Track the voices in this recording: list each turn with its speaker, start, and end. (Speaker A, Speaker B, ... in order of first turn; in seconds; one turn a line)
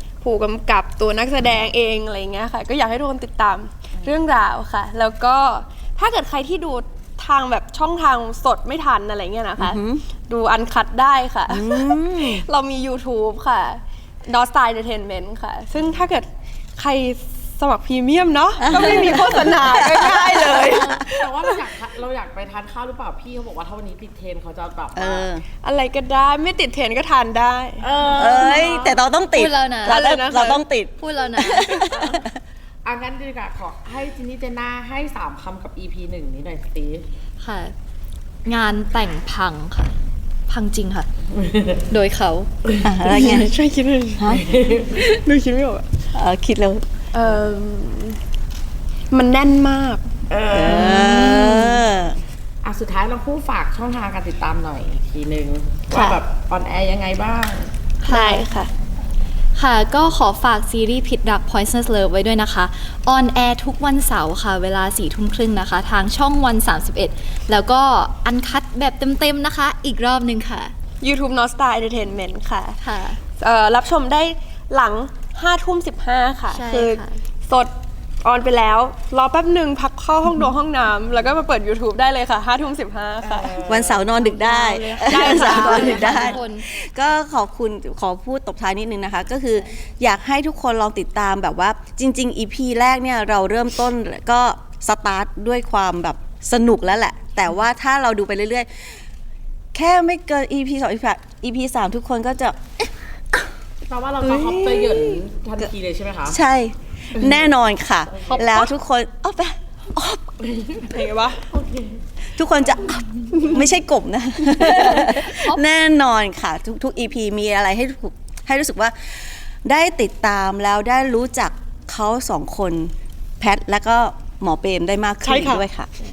Speaker A: 0.2-21.6
Speaker B: 9.6-10.0
Speaker B: 11.5-12.4
Speaker B: 18.6-21.0
Speaker C: 20.6-25.3
Speaker B: 24.9-25.4
Speaker A: 25.6-27.9
Speaker C: 27.8-29.0
Speaker B: 28.1-32.3
Speaker D: 29.3-30.0
Speaker A: 29.9-30.6
Speaker D: 31.0-31.8
Speaker C: 31.7-32.3
Speaker C: 32.8-37.0
Speaker D: 37.4-37.7
Speaker D: 38.4-39.9
Speaker D: 40.5-41.1
Speaker C: 41.3-41.8
Speaker D: 41.9-42.5
Speaker B: 42.8-43.5
Speaker A: 43.0-45.9
Speaker B: 44.2-44.4
Speaker C: 44.3-45.0
Speaker B: 46.1-46.8
Speaker A: 47.1-48.2
Speaker A: 49.1-50.0
Speaker C: 50.3-51.7
Speaker B: 50.5-52.2
Speaker D: 50.8-51.6
Speaker C: 52.6-57.7
Speaker D: 55.9-56.2
Speaker D: 58.0-58.5
Speaker A: 58.0-58.7
Speaker D: 59.5-70.7
Speaker A: 71.0-72.8
Speaker D: 72.8-73.2
Speaker A: 73.4-83.6
Speaker D: 76.5-77.2
Speaker C: 83.2-84.0
Speaker B: 83.6-99.0
Speaker D: 84.0-86.7
Speaker A: 85.0-86.2
Speaker C: 85.6-86.3
Speaker B: 99.7-103.5
Speaker C: 103.8-106.4
Speaker B: 104.2-105.2
Speaker B: 106.3-110.4
Speaker C: 107.2-107.4
Speaker C: 108.1-108.6
Speaker C: 110.4-110.8
Speaker A: 110.8-111.4
Speaker C: 111.5-112.0
Speaker B: 112.3-125.9
Speaker D: 114.6-115.6
Speaker A: 125.2-125.7